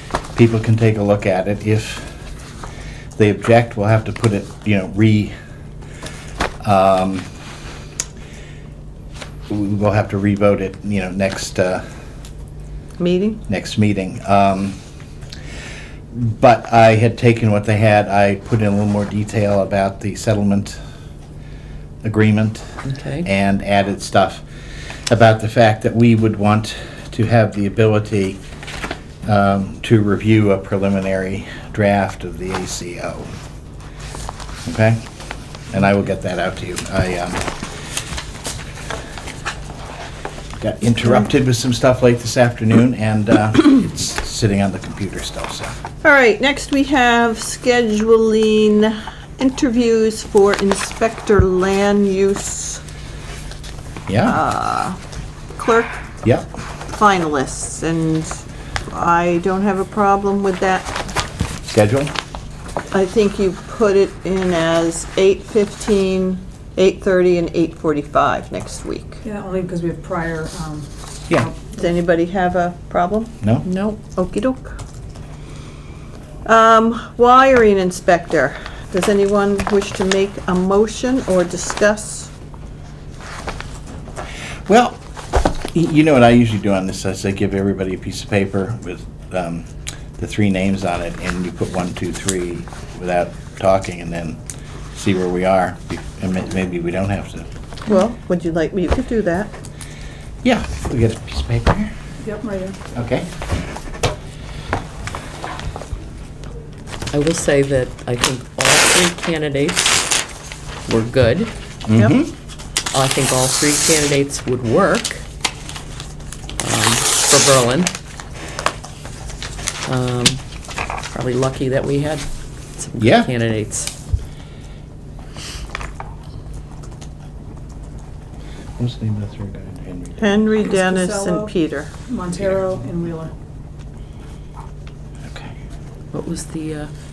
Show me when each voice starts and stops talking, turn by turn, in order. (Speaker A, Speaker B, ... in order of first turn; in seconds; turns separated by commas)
Speaker A: 0.3-2.1, Speaker A: 3.2-5.3, Speaker A: 6.6-7.3, Speaker A: 9.5-11.8, Speaker B: 13.0-13.4, Speaker A: 13.5-14.8, Speaker A: 16.1-20.8, Speaker A: 22.0-24.4, Speaker C: 22.9-23.3, Speaker A: 25.1-28.4, Speaker A: 29.2-33.3, Speaker A: 34.7-35.0, Speaker A: 35.7-37.5, Speaker A: 40.6-45.8, Speaker B: 46.0-52.8, Speaker A: 54.1-54.4, Speaker B: 54.2-55.0, Speaker B: 55.5-56.0, Speaker B: 56.9-60.9, Speaker A: 61.7-62.1, Speaker B: 62.9-69.2, Speaker D: 69.2-71.9, Speaker B: 71.7-73.3, Speaker A: 73.4-73.7, Speaker C: 73.7-74.0, Speaker B: 74.2-74.8, Speaker B: 76.5-82.3, Speaker A: 84.7-85.0, Speaker A: 85.7-94.4, Speaker A: 94.9-97.5, Speaker B: 97.9-99.5, Speaker A: 100.4-101.9, Speaker D: 102.2-102.8, Speaker A: 102.9-103.3, Speaker C: 107.1-110.0, Speaker C: 110.9-111.5, Speaker A: 111.9-112.3, Speaker B: 112.0-112.2, Speaker C: 112.9-115.2, Speaker C: 116.6-117.9, Speaker C: 119.8-120.4, Speaker C: 121.1-122.2, Speaker C: 122.8-123.9, Speaker A: 123.0-123.3, Speaker A: 128.8-130.3, Speaker B: 130.2-131.9, Speaker D: 130.6-131.5, Speaker D: 132.1-133.3, Speaker A: 135.3-135.5, Speaker C: 136.1-136.9